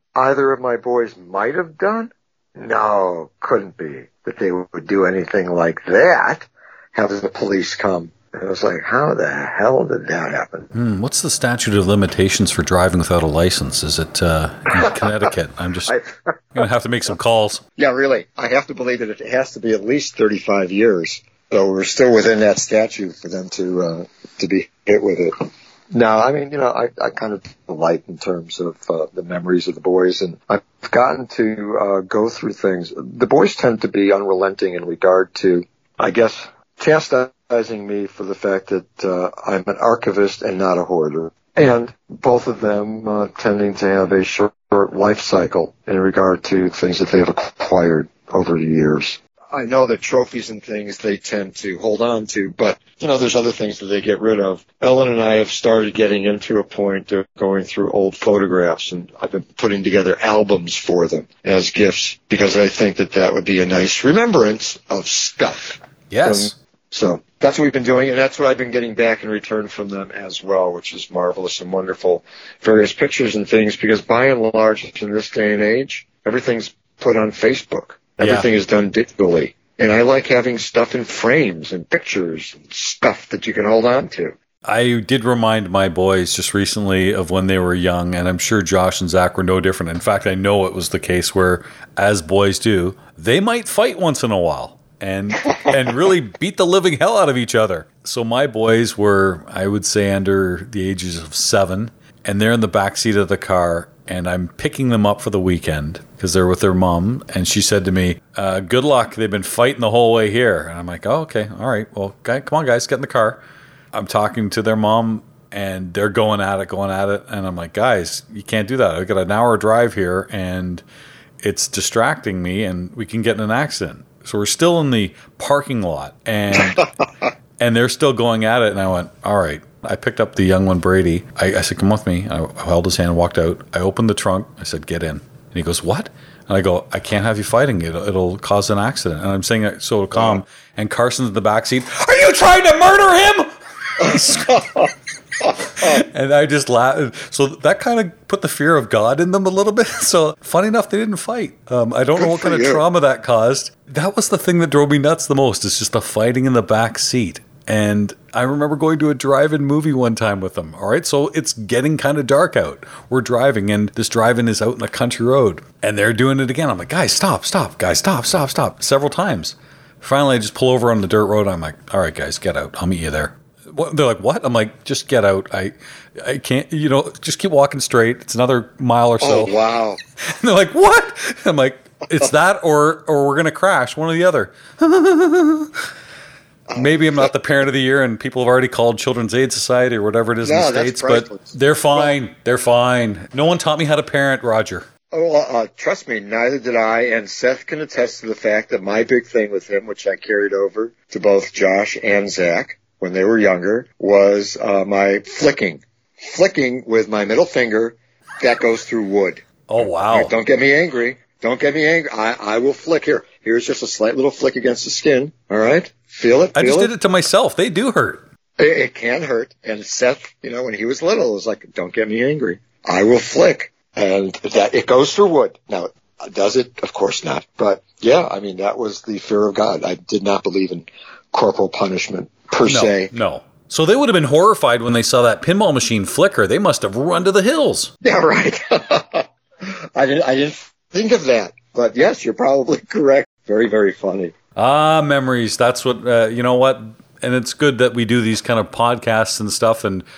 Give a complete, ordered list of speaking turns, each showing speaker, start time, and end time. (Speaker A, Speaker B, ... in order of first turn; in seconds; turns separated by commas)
Speaker A: 0.1-10.7, Speaker B: 10.7-15.9, Speaker A: 14.8-15.3, Speaker A: 15.9-16.3, Speaker B: 16.5-17.6, Speaker A: 17.8-25.3, Speaker A: 25.9-84.3, Speaker B: 66.1-66.6, Speaker B: 78.2-78.5, Speaker B: 84.6-113.4, Speaker B: 113.9-120.8, Speaker B: 121.4-126.9, Speaker B: 127.6-144.6, Speaker A: 140.1-140.4, Speaker A: 144.0-146.0, Speaker B: 145.6-179.5, Speaker A: 152.2-152.8, Speaker A: 179.2-180.0, Speaker B: 180.3-185.7, Speaker A: 186.7-187.3, Speaker B: 186.8-194.9, Speaker A: 190.4-192.1, Speaker A: 195.1-209.4, Speaker B: 209.7-210.3, Speaker A: 210.1-216.9, Speaker B: 216.6-218.2, Speaker A: 218.6-233.1, Speaker B: 232.6-237.9, Speaker A: 238.0-244.3, Speaker B: 244.6-250.1